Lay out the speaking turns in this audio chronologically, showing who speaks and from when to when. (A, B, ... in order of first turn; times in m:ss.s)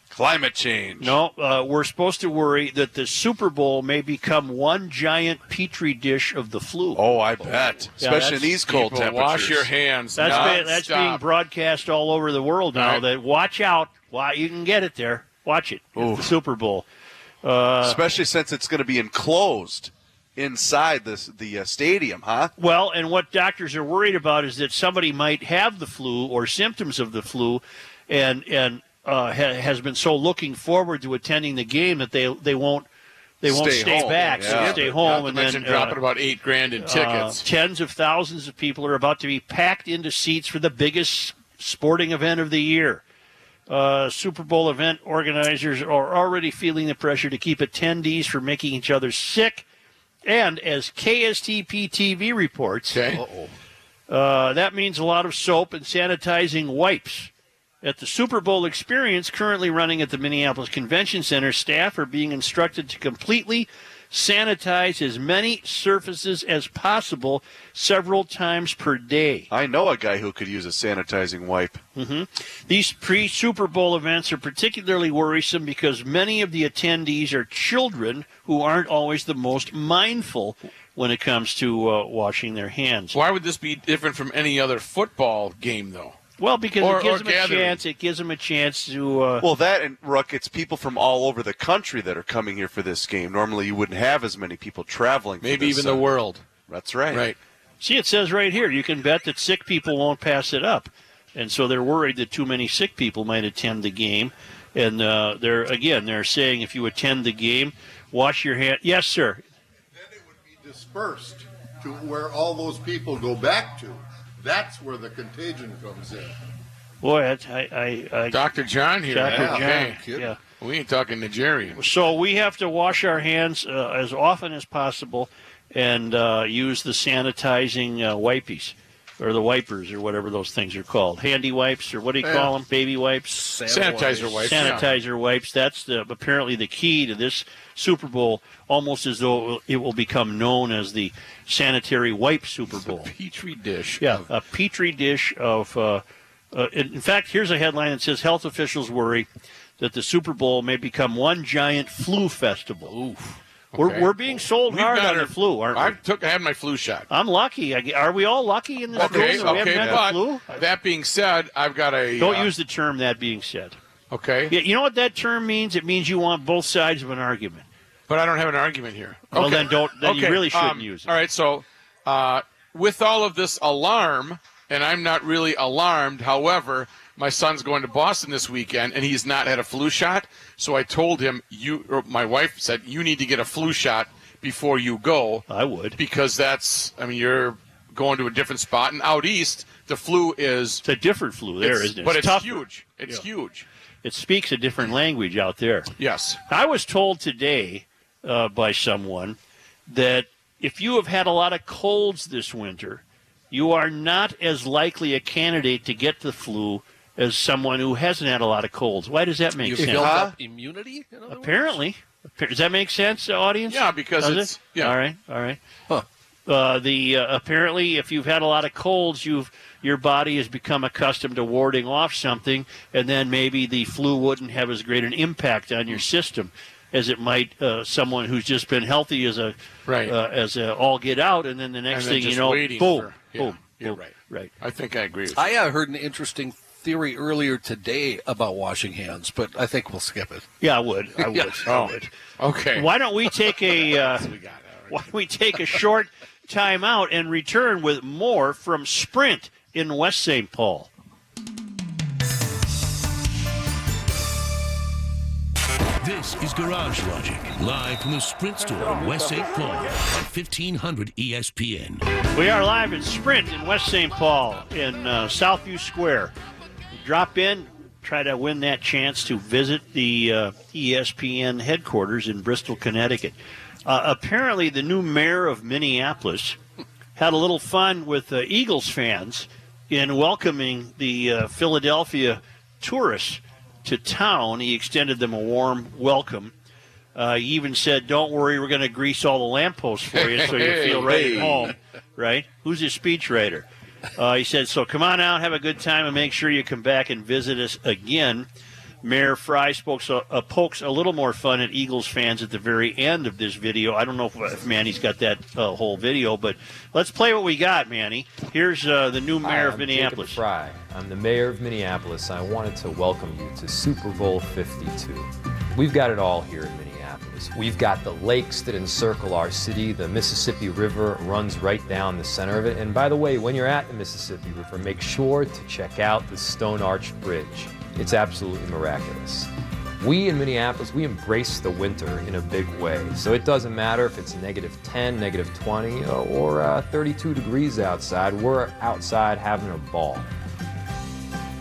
0:00.1-0:01.2 A
0:01.0-0:07.1 B
0:07.0-0:09.7 A
0:08.0-0:08.6 B
0:08.7-0:11.2 C
0:10.2-0:16.9 B
0:10.3-0:10.6 A
0:12.8-0:13.0 C
0:16.0-0:16.4 A
0:17.4-0:18.0 B
0:17.8-0:22.5 A
0:22.6-0:32.9 B
0:33.4-0:36.0 B
0:33.4-0:34.8 A
0:33.9-0:34.9 D
0:34.9-0:37.4 C
0:36.8-0:43.0 B
0:43.7-0:49.7 B
0:50.2-0:53.0 B
0:52.9-0:53.2 C
0:53.1-0:53.5 D
0:54.1-0:57.3 B
0:57.8-1:09.5 B
1:09.5-1:11.8 A
1:12.0-1:23.2 B
1:23.1-1:26.2 C
1:26.4-1:29.5 B
1:26.8-1:27.8 C
1:29.4-1:37.3 A
1:35.4-1:36.4 C
1:37.1-1:37.4 C
1:37.8-1:49.4 B
1:50.0-1:56.4 E
1:57.0-1:58.5 B
1:58.3-2:00.0 C
1:59.1-2:00.4 B
1:59.1-2:00.3 D
2:00.6-2:01.8 C
2:01.8-2:13.5 B
2:12.2-2:12.5 D
2:13.3-2:14.9 D
2:13.7-2:14.8 C
2:14.4-2:23.1 B
2:22.8-2:24.2 C
2:24.0-2:29.3 B
2:29.8-2:32.9 B
2:32.9-2:33.4 D
2:33.7-2:37.1 C
2:33.8-2:36.0 B
2:37.1-2:40.5 B
2:39.0-2:42.5 C
2:39.0-2:40.0 A
2:42.2-2:43.8 B
2:44.1-2:44.5 C
2:44.5-2:47.7 B
2:48.1-3:05.4 C
2:49.3-2:51.1 B
3:05.5-3:06.0 B
3:06.0-3:10.8 C
3:10.8-3:13.2 B
3:11.6-3:13.7 C
3:14.0-3:15.9 B
3:16.0-3:16.4 C
3:16.5-3:19.4 B
3:19.9-3:30.3 B
3:29.6-3:31.8 D
3:29.8-3:30.4 A
3:31.3-3:35.6 B
3:33.7-3:35.0 C
3:36.5-3:54.5 B
3:49.9-3:50.1 C
3:51.9-3:55.5 C
3:55.3-4:00.5 D
4:00.6-4:02.1 B
4:01.2-4:01.8 D
4:01.7-4:03.0 C
4:02.7-4:04.3 B
4:03.8-4:04.9 C
4:04.9-4:10.9 B
4:16.0-4:22.0 F
4:22.3-4:26.3 B
4:27.0-4:36.6 B
4:37.2-4:46.5 B
4:47.2-4:58.5 B
4:50.2-4:51.3 C
4:50.9-4:51.7 A
4:59.0-5:10.4 B
5:09.4-5:40.3 G